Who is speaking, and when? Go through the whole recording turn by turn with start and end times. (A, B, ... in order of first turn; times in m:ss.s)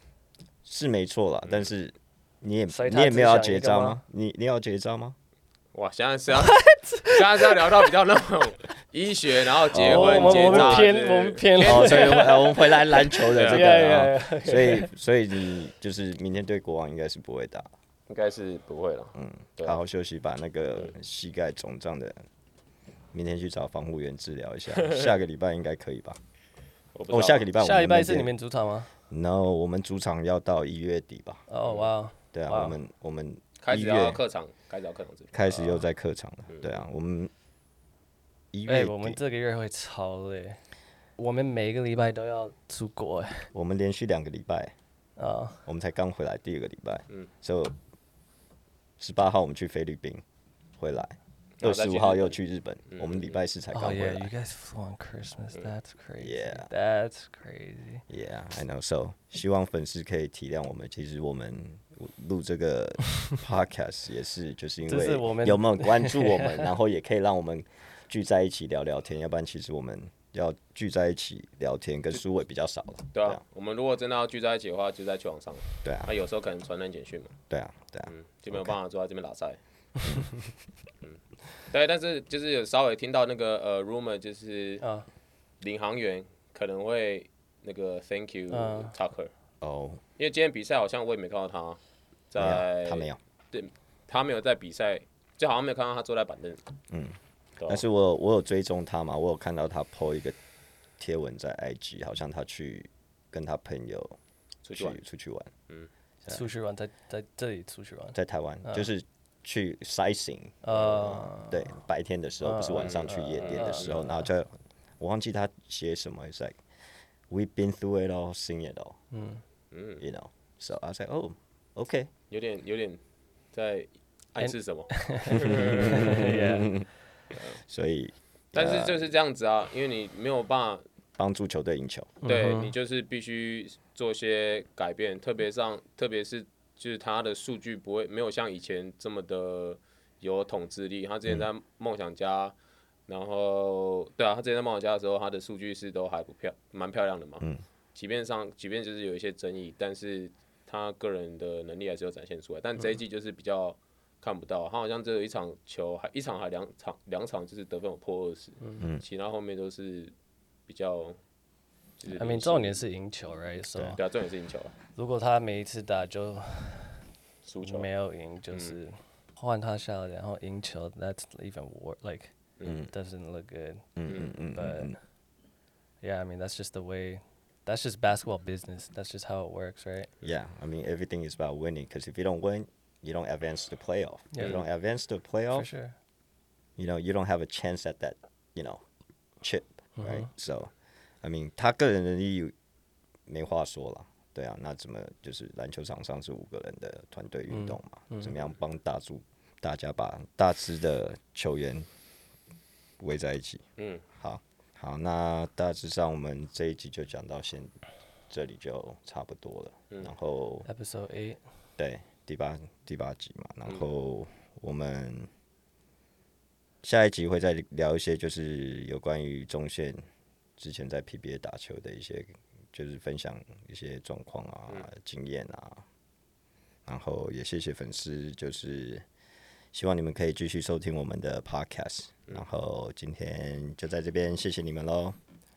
0:00.6-0:05.2 A
0:02.7-0:04.0 B
0:05.7-0:12.4 C
0:06.3-0:07.9 B
0:09.7-0:10.9 A
0:09.8-0:14.9 B
0:11.6-0:17.7 A
0:13.3-0:13.7 C
0:18.1-0:19.8 C
0:19.1-0:22.2 A
0:23.1-0:26.2 A
0:24.7-0:25.1 C
0:26.9-0:27.5 C
0:27.1-0:28.3 A
0:27.6-0:28.9 B
0:29.1-0:31.4 A
0:31.5-0:32.8 B
0:31.6-0:31.9 C
0:32.3-0:34.2 A
0:33.6-0:35.8 C
0:35.3-0:37.3 A
0:38.5-0:39.2 A
0:38.7-0:40.6 B
0:41.2-0:43.5 B
0:43.5-0:44.7 A
0:45.2-0:45.6 B
0:45.6-0:47.8 A
0:49.0-0:50.2 A
0:50.8-0:54.3 A
0:51.6-0:52.4 C
0:52.9-0:53.4 C
0:53.7-0:58.0 B
0:56.2-0:56.7 A
0:58.1-1:13.4 A
1:04.9-1:06.7 B
1:13.1-1:17.4 C
1:15.8-1:16.1 A
1:17.5-1:18.7 A
1:18.1-1:19.6 C
1:20.0-1:20.5 A
1:21.0-1:24.8 C
1:25.6-1:29.3 C
1:28.5-1:28.9 B
1:29.6-1:30.0 A
1:30.2-1:31.8 C
1:32.3-1:36.7 C
1:32.4-1:33.2 A
1:36.9-1:40.4 A
1:37.6-1:37.8 C
1:41.0-1:44.2 A
1:44.6-1:45.0 C
1:44.7-1:45.5 A
1:46.3-1:48.9 B
1:48.1-1:56.6 A
1:50.6-1:51.8 B
1:52.4-1:54.3 B
1:52.8-1:54.0 C
1:57.3-1:59.0 A
1:59.1-1:59.4 B
1:59.7-2:00.0 C
2:00.0-2:02.1 A
2:02.3-2:03.0 C
2:03.5-2:06.3 C
2:04.4-2:06.8 B
2:05.5-2:06.9 A
2:07.3-2:07.6 C
2:07.6-2:09.0 A
2:08.5-2:10.8 C
2:11.2-2:12.1 A
2:12.2-2:12.7 B
2:12.2-2:22.5 C
2:23.1-2:40.1 C
2:38.6-2:38.8 B
2:40.7-2:41.2 C
2:42.0-2:42.8 C
2:42.1-2:44.0 B
2:43.6-2:44.0 A
2:43.9-2:44.7 C
2:45.0-2:47.0 B
2:47.4-2:47.9 C
2:47.6-2:52.3 B
2:48.5-2:48.8 C
2:52.6-2:52.8 C
2:52.6-2:52.9 A
2:52.9-2:55.0 B
2:54.0-2:54.9 A
2:54.1-2:54.4 C
2:56.0-3:00.1 B
3:00.2-3:05.7 A
3:04.3-3:04.6 B
3:04.4-3:04.6 C
3:05.5-3:05.9 B
3:06.8-3:08.8 A
3:09.4-3:10.7 A
3:10.0-3:10.3 B
3:11.2-3:12.5 A
3:13.3-3:21.8 A
3:17.5-3:18.3 B
3:23.0-3:23.6 A
3:23.8-3:24.0 C
3:24.2-3:27.7 A
3:28.3-3:30.7 A
3:30.6-3:31.4 B
3:31.8-3:35.3 A
3:36.8-3:40.0 A
3:40.6-3:45.8 A
3:46.8-3:49.0 A
3:49.7-3:55.2 A